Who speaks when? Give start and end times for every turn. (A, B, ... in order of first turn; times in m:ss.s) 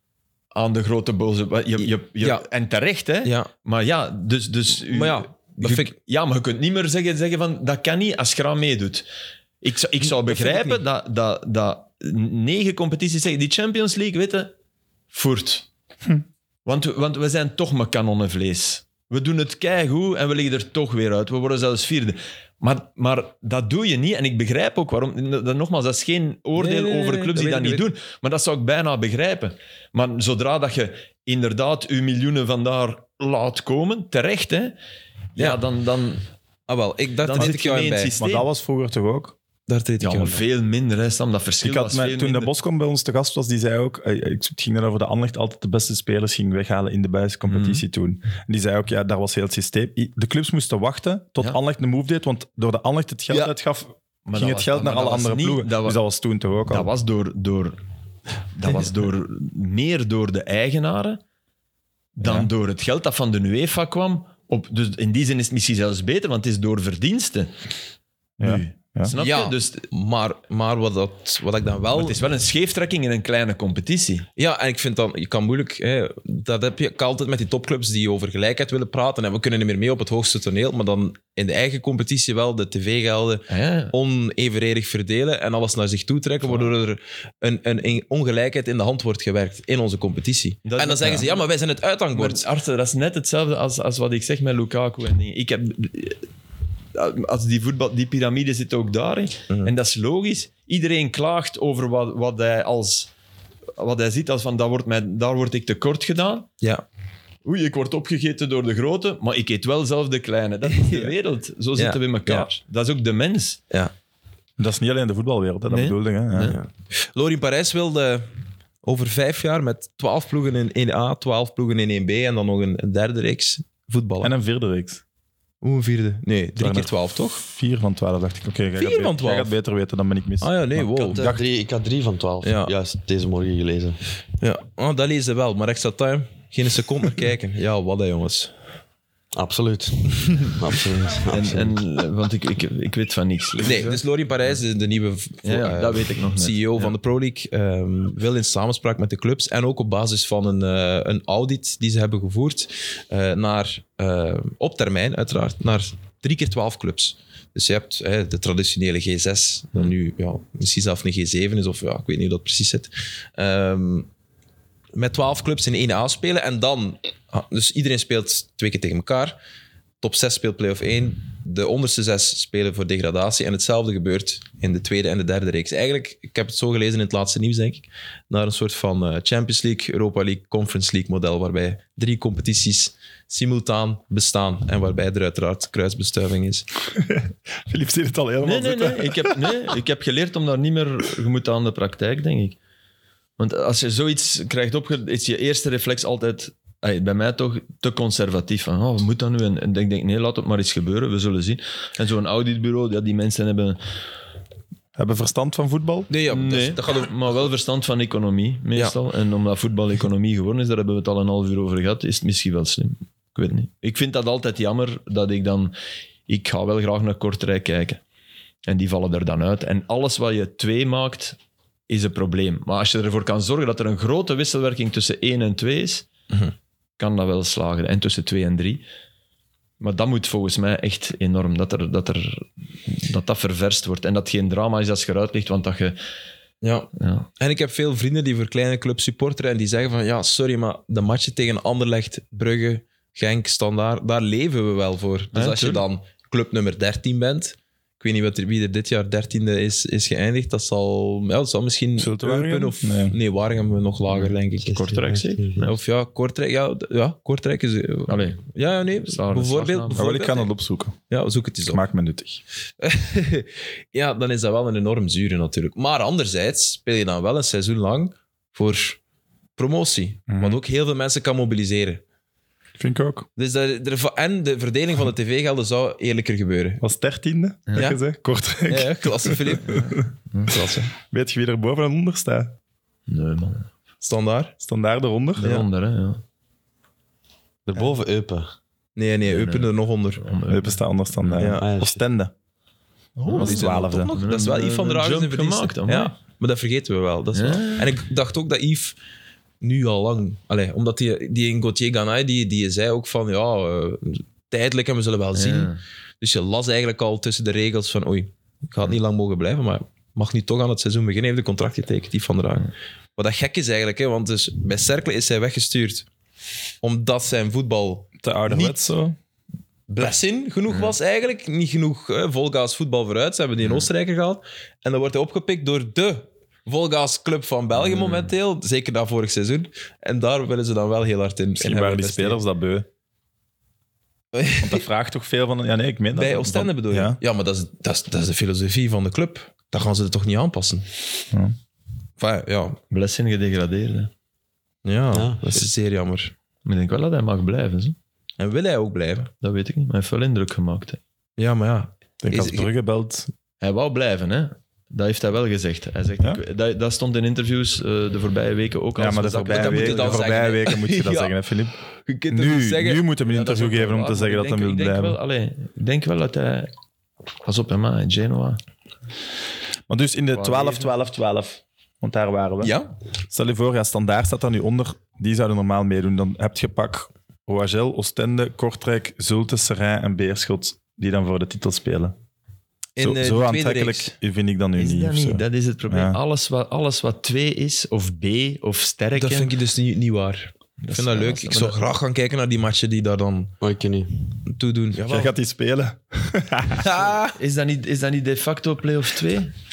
0:00.5-0:09.0 A
0:03.2-0:03.5 B
0:04.9-0:05.9 B
0:09.6-0:14.5 A
0:10.2-0:10.8 B
0:15.1-0:15.7 A
0:16.6-0:34.8 A
0:26.6-0:27.9 B
0:35.4-0:36.2 A
0:36.7-0:38.1 B
0:37.2-0:38.5 A
0:38.2-0:39.4 C
0:39.7-0:40.4 B
0:40.0-0:42.5 A
0:41.6-0:56.9 C
0:47.5-0:47.8 A
0:54.2-0:56.0 A
0:56.7-0:57.8 A
0:58.5-1:01.2 A
1:02.2-1:07.5 A
1:02.2-1:02.5 C
1:08.4-1:09.1 C
1:08.4-1:09.9 A
1:09.2-1:12.2 B
1:11.9-1:14.3 A
1:14.4-1:32.4 B
1:23.5-1:23.9 A
1:30.6-1:31.4 A
1:32.1-1:36.3 A
1:36.9-1:43.1 A
1:43.8-1:46.5 A
1:47.4-1:53.6 A
1:50.7-1:51.1 B
1:51.8-1:52.5 B
1:54.6-1:56.6 C
1:55.7-1:56.6 A
1:56.4-1:58.3 B
1:58.8-2:04.3 B
2:04.2-2:05.0 C
2:05.6-2:07.4 B
2:06.6-2:11.4 C
2:08.8-2:09.5 B
2:10.4-2:11.2 B
2:11.0-2:14.0 D
2:12.4-2:12.7 B
2:14.4-2:18.5 B
2:19.3-2:21.8 D
2:21.3-2:24.0 A
2:23.6-2:44.1 B
2:25.4-2:26.9 A
2:44.9-2:49.4 B
2:50.0-3:06.6 B
3:06.9-3:09.6 C
3:08.4-3:12.6 A
3:13.4-3:23.8 A
3:25.0-3:26.1 C
3:26.1-3:27.1 B
3:26.3-3:35.7 A
3:36.3-3:38.0 A
3:38.7-3:41.4 A
3:41.9-3:46.1 A
3:47.0-3:48.8 A
3:49.8-3:56.0 A
3:56.6-4:14.8 B
3:57.0-3:57.3 A
4:05.3-4:05.8 A
4:12.0-4:13.2 C
4:14.1-4:15.7 A
4:14.7-4:15.7 D
4:15.6-4:20.5 B
4:18.1-4:18.5 A
4:19.0-4:20.0 A
4:19.9-4:21.0 C
4:21.1-4:21.8 B
4:21.7-4:22.4 C
4:22.8-4:29.0 B
4:29.6-4:32.0 B
4:30.3-4:30.6 C
4:32.8-4:33.3 C
4:33.4-4:36.8 B
4:36.8-4:40.0 C
4:38.7-4:40.8 B
4:40.3-4:40.6 A
4:40.9-4:42.6 C
4:43.1-4:43.7 A
4:44.0-4:44.5 B
4:44.6-4:45.6 C
4:45.4-4:46.2 A
4:47.7-4:48.5 D
4:49.0-4:50.2 B
4:49.3-4:51.4 A
4:50.5-4:52.3 C
4:51.4-4:51.6 B
4:51.4-4:52.0 D
4:53.2-4:56.1 A
4:53.2-4:54.1 C
4:53.3-4:59.0 B
4:57.3-4:57.9 A
4:59.6-5:16.1 B
5:05.3-5:05.8 A
5:16.8-5:18.8 B
5:18.2-5:19.2 C
5:19.9-5:32.4 B
5:27.8-5:28.3 A
5:31.6-5:32.9 C
5:34.3-5:34.8 B
5:34.6-5:37.2 C
5:36.1-5:40.8 B
5:42.2-5:42.8 B
5:42.9-5:44.1 A
5:44.8-5:46.3 B
5:45.1-5:45.6 D
5:46.6-5:48.0 A
5:48.4-5:49.3 B
5:49.4-5:51.0 A
5:51.4-5:52.7 B
5:52.2-5:53.3 C
5:53.6-6:00.2 A
5:59.0-6:01.7 C
5:59.4-6:01.3 B
6:02.1-6:03.2 B
6:02.3-6:05.2 C
6:03.3-6:06.7 A
6:07.4-6:08.6 A
6:09.9-6:12.7 C
6:10.3-6:10.9 A
6:13.3-6:22.1 C
6:23.0-6:24.1 B
6:23.0-6:26.2 C
6:24.8-6:29.5 A
6:29.2-6:33.5 B
6:30.8-6:31.8 A
6:33.6-6:34.3 D
6:34.4-6:35.3 B
6:35.0-6:37.0 C
6:36.8-6:37.4 B
6:37.3-6:39.5 A